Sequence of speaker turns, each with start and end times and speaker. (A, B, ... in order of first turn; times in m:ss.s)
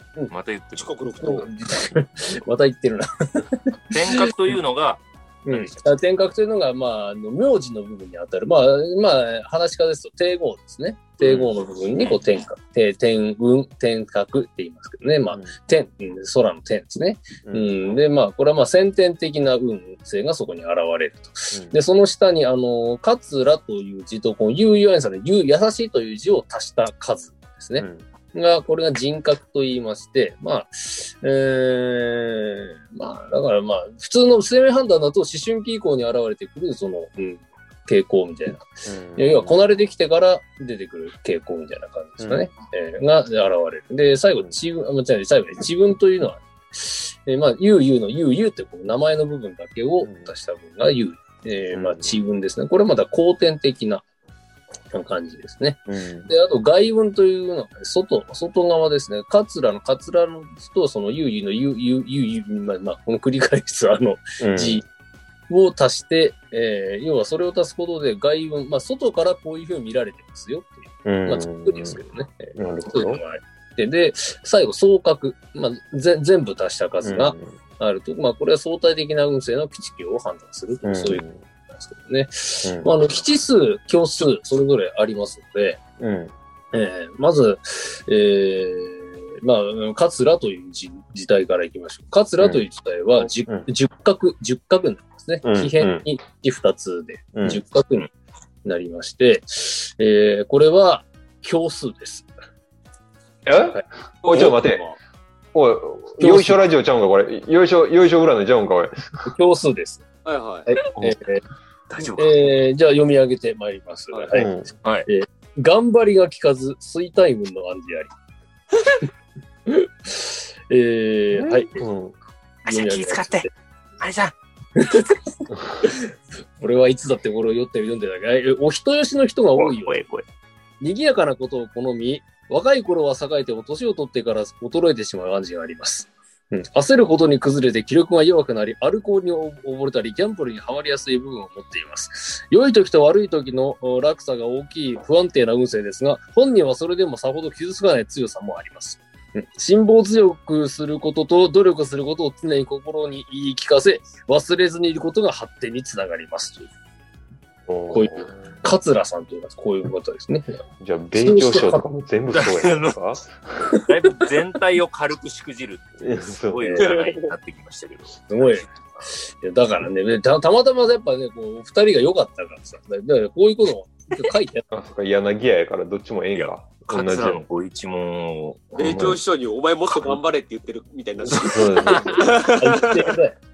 0:00.3-0:00.9 A
0:00.7-0:01.5 B
0:01.2-0:04.2 C
0:03.9-0:05.9 A
0:05.4-0:54.0 C
0:11.2-0:11.5 D
0:17.4-0:17.7 D
0:27.8-0:28.0 D
0:38.8-0:39.6 D
0:42.2-0:42.4 D
0:50.0-0:50.3 D
0:51.7-0:52.2 D
0:54.9-1:04.8 C
0:55.9-0:56.3 D
1:04.4-1:04.8 D
1:05.5-1:25.8 C
1:11.0-1:12.0 D
1:12.6-1:13.2 D
1:17.0-1:17.6 D
1:20.8-1:21.4 D
1:22.6-1:22.9 D
1:26.0-1:26.3 D
1:26.7-1:38.1 C
1:35.4-1:36.0 D
1:37.3-1:37.6 D
1:38.6-1:42.3 C
1:43.4-1:44.8 D
1:44.2-1:45.0 B
1:45.5-1:49.3 D
1:46.2-1:46.6 C
1:49.2-1:50.0 C
1:50.2-1:50.7 B
1:50.7-1:51.4 C
1:51.9-1:52.4 A
1:52.1-1:54.5 C
1:54.3-1:54.7 D
1:55.1-1:58.1 C
1:59.7-2:01.8 C
2:01.3-2:02.1 D
2:02.6-2:03.5 A
2:02.6-2:03.5 C
2:04.0-2:04.3 A
2:04.8-2:05.3 C
2:05.8-2:10.0 C
2:09.6-2:10.2 A
2:10.8-2:36.7 C
2:37.7-2:38.7 D
2:37.9-2:40.6 C
2:40.8-2:43.3 D
2:41.2-2:41.8 C
2:42.3-2:42.9 A
2:43.9-2:49.1 A
2:46.0-2:46.7 D
2:46.8-2:47.3 B
2:48.3-2:54.6 C
2:54.7-2:57.4 D
2:56.3-2:59.0 A
2:58.7-2:59.2 D
2:58.7-3:03.1 B
3:01.4-3:02.3 D
3:01.8-3:02.2 A
3:02.6-3:03.4 C